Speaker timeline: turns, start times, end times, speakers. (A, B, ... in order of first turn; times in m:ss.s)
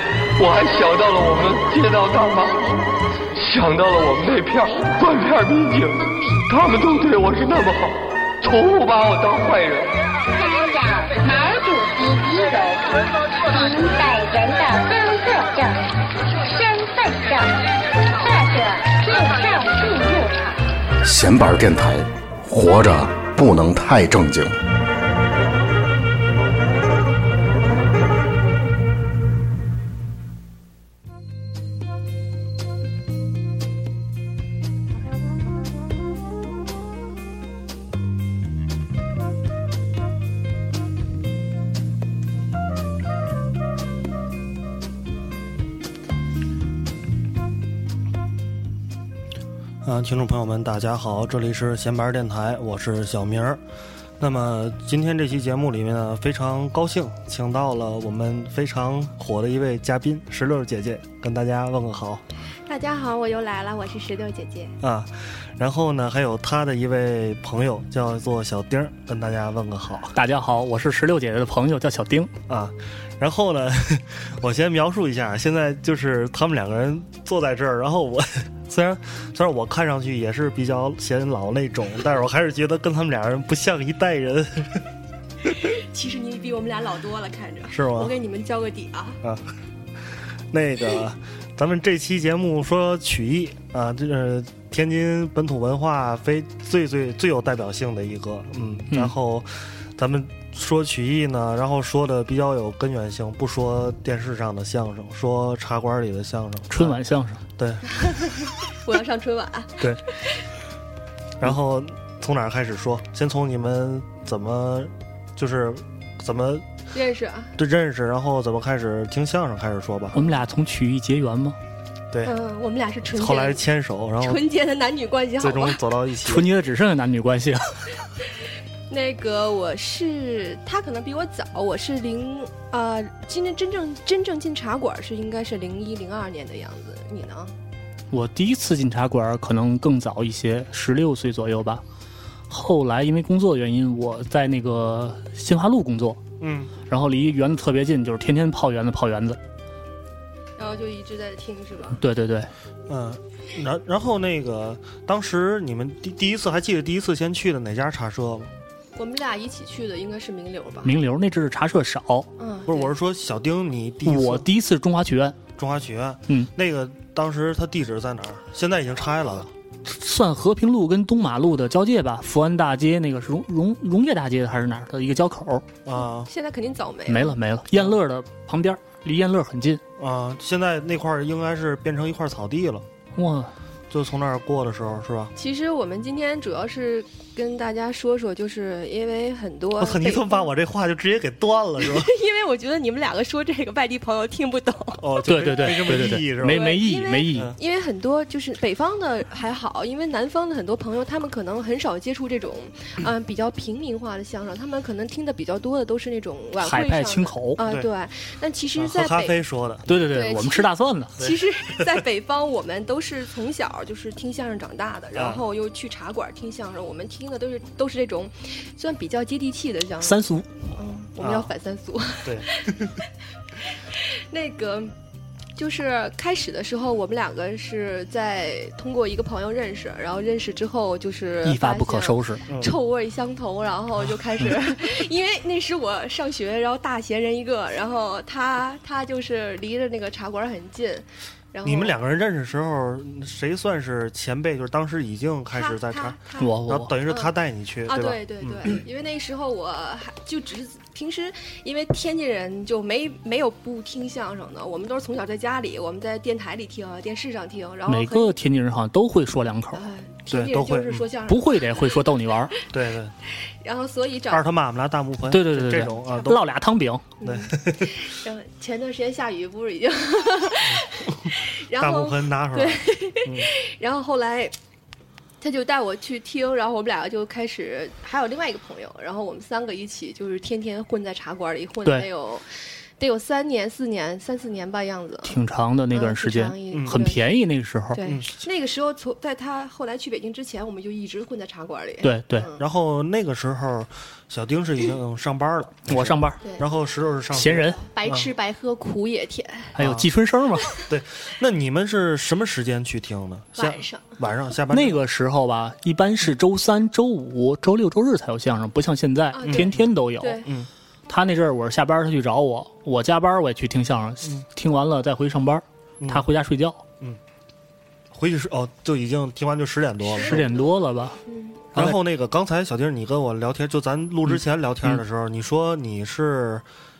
0:00.4-0:02.7 A
0:03.3-0:09.9 A
0:10.3-0:15.8 B
0:16.4-0:17.6 B
0:18.2-0:20.6 B
0:21.0-0:24.6 C
0:49.8-0:53.6 D
0:54.2-1:02.2 D
1:02.7-1:04.7 E
1:04.8-1:10.2 D
1:10.1-1:12.3 F
1:12.5-1:24.8 D
1:25.5-1:29.2 E
1:27.7-1:28.1 D
1:29.2-1:29.5 D
1:30.5-1:47.0 D
1:46.7-1:47.4 F
1:47.6-1:47.9 D
1:47.9-1:50.4 E
1:51.4-1:56.6 D
1:56.9-1:57.5 E
1:57.6-2:00.2 D
2:00.2-2:01.6 F
2:02.2-2:03.6 E
2:03.1-2:04.4 D
2:04.2-2:05.8 E
2:05.4-2:06.5 D
2:06.2-2:07.8 F
2:08.9-2:17.5 E
2:18.1-2:21.8 F
2:22.5-2:26.2 F
2:26.4-2:26.7 D
2:26.9-2:29.4 F
2:30.6-2:32.0 E
2:32.0-2:32.5 F
2:32.9-2:38.5 D
2:38.9-2:40.9 E
2:40.8-2:42.3 F
2:42.4-2:42.9 E
2:42.7-2:44.4 D
2:44.0-2:45.4 F
2:45.6-2:49.5 D
2:49.8-2:55.7 F
2:55.8-2:56.3 D
2:56.0-2:57.3 E
2:57.1-2:59.8 F
3:00.0-3:02.8 D
3:03.1-3:03.5 F
3:03.9-3:05.3 D
3:05.4-3:10.5 E
3:09.8-3:12.1 D
3:11.8-3:15.1 E
3:15.0-3:16.8 D
3:15.2-3:17.5 F
3:16.4-3:29.4 E
3:26.6-3:27.6 F
3:27.6-3:27.9 D
3:28.8-3:29.9 D
3:29.9-3:31.2 F
3:29.9-3:40.2 E
3:31.2-3:31.8 D
3:35.1-3:35.4 D
3:40.0-3:40.5 F
3:40.7-3:42.7 E
3:41.2-3:41.5 D
3:42.2-3:43.0 D
3:43.6-3:44.9 E
3:45.6-4:02.0 E
3:51.4-3:52.4 F
3:52.5-3:52.7 D
4:01.6-4:08.7 D
4:05.5-4:07.3 E
4:06.4-4:06.9 F
4:07.9-4:18.3 E
4:17.9-4:19.8 F
4:19.7-4:21.9 E
4:20.3-4:21.1 D
4:21.3-4:22.5 F
4:22.7-4:23.1 D
4:23.6-4:24.4 E
4:24.3-4:26.4 D
4:25.3-4:27.0 F
4:26.1-4:26.4 E
4:27.2-4:34.5 E
4:27.2-4:28.0 D
4:30.6-4:33.5 D
4:35.4-4:42.5 E
4:43.0-4:45.4 E
4:45.2-4:48.0 F
4:45.9-4:47.2 E
4:46.7-4:47.0 D
4:47.9-4:52.6 E
4:52.0-4:52.5 F
4:52.6-4:58.3 D
4:55.9-4:56.4 F
4:57.3-4:57.8 F
4:57.8-4:59.7 E
4:59.8-5:00.7 F
4:59.8-5:00.1 D
5:00.9-5:05.0 D
5:03.6-5:04.2 E
5:04.7-5:10.4 F
5:09.3-5:10.4 E
5:09.5-5:09.9 D
5:11.1-5:16.8 F
5:16.0-5:16.2 D
5:18.1-5:20.5 D
5:20.1-5:20.6 E
5:20.2-5:21.2 F
5:21.2-5:21.6 E
5:21.7-5:26.6 D
5:24.3-5:25.0 F